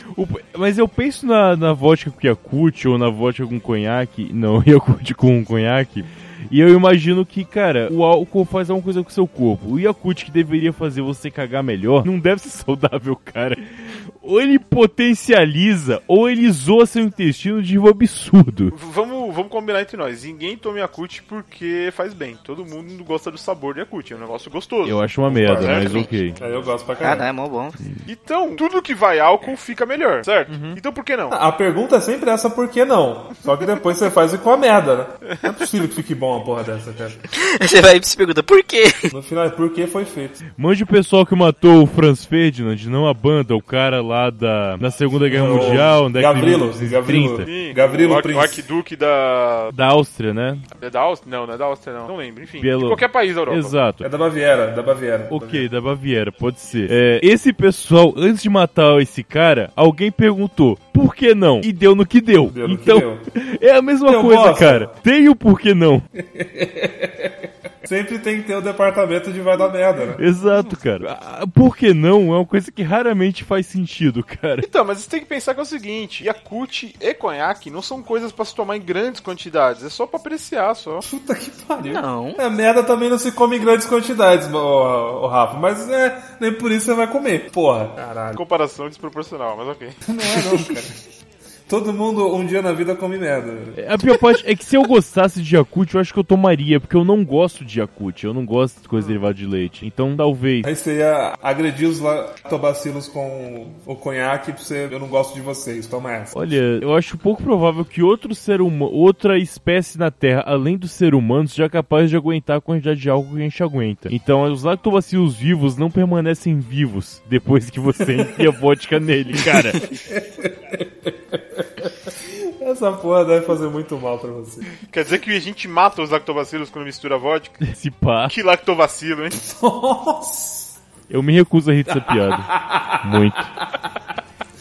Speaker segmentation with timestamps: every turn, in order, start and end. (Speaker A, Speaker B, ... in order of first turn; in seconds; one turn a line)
Speaker A: 0.1-18.7
Speaker B: 18.7-26.5
Speaker A: 24.8-26.4
Speaker C: 25.5-26.1
Speaker D: 26.4-27.3
Speaker C: 27.0-27.8
Speaker B: 28.1-31.4
Speaker A: 30.5-30.8
Speaker D: 31.3-37.2
Speaker C: 37.4-39.1
Speaker D: 39.1-40.4
Speaker A: 40.6-47.5
Speaker D: 45.2-48.6
Speaker B: 45.4-45.8
Speaker B: 47.4-49.7
Speaker A: 49.7-50.6
Speaker B: 50.8-53.8
Speaker A: 52.6-54.0
Speaker D: 54.0-55.7
Speaker A: 55.3-66.1
Speaker D: 62.5-63.2
Speaker D: 64.0-64.9
Speaker D: 66.2-70.2
Speaker A: 70.2-74.7
Speaker B: 74.6-81.0
Speaker D: 81.0-88.4
Speaker C: 81.8-82.4
Speaker B: 88.3-90.0
Speaker D: 90.0-91.0
Speaker D: 91.7-93.8
Speaker A: 93.7-100.6
Speaker D: 100.6-106.4
Speaker A: 106.3-119.9
Speaker D: 119.5-124.7
Speaker B: 124.9-127.7
Speaker A: 127.6-128.3
Speaker B: 128.3-129.3
Speaker D: 129.3-130.7
Speaker A: 131.1-133.5
Speaker D: 131.9-133.9